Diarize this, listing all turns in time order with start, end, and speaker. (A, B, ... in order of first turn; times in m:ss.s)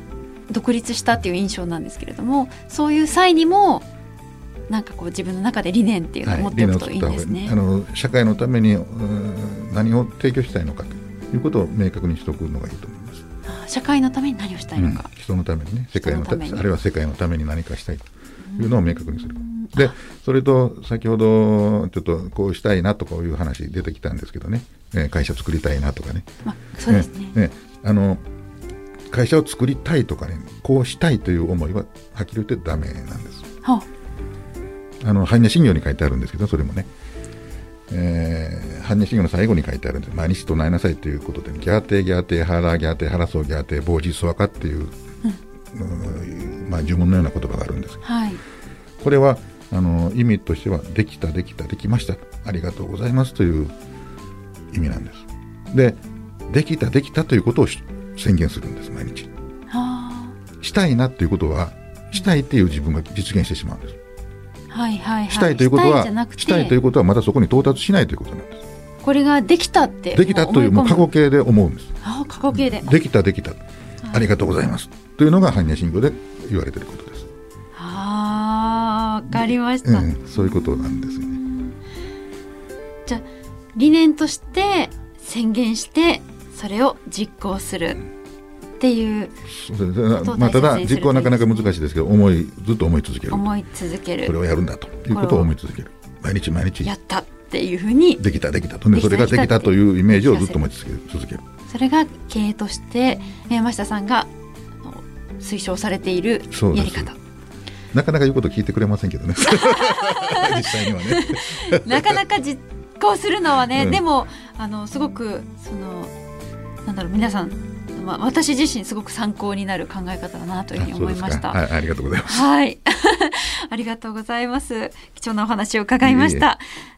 0:00.5-0:03.9 A
0:04.7-0:07.5 A
0:06.2-0:13.2 B
0:13.5-0:15.1 A
0:14.8-0:26.3 B
0:16.0-0:16.6 A
0:18.5-0:19.9 A
0:26.4-0:27.4 A
0:26.9-0:28.2 B
0:29.1-0:33.5 B
0:35.0-0:36.9 B
0:37.9-0:44.9 B
0:45.7-0:48.0 B
0:48.0-0:48.4 A
0:49.0-0:53.8 B
0:54.7-0:59.3 B
0:59.7-1:00.4 A
1:00.6-1:04.0 B
1:04.7-1:06.8 A
1:05.3-1:08.6 B
1:09.0-1:11.1 A
1:10.1-1:11.9 B
1:12.0-1:13.0 A
1:12.5-1:13.6 B
1:14.1-1:17.3 B
1:17.8-1:21.8 A
1:19.3-1:21.4 B
1:23.1-1:28.0 A
1:28.8-1:29.4 A
1:29.5-1:33.4 B
1:30.1-1:31.7 A
1:33.3-1:34.4 A
1:34.2-1:36.9 B
1:35.1-1:35.5 A
1:36.8-1:38.2 A
1:38.2-1:41.4 B
1:38.9-1:40.6 A
1:41.7-1:44.3 A
1:44.8-1:47.2 A
1:46.5-1:47.1 B
1:47.9-1:52.2 B
1:49.4-1:56.1 A
1:53.7-1:54.0 B
1:56.8-2:01.6 A
2:00.8-2:02.5 B
2:02.3-2:06.6 A
2:06.0-2:06.5 B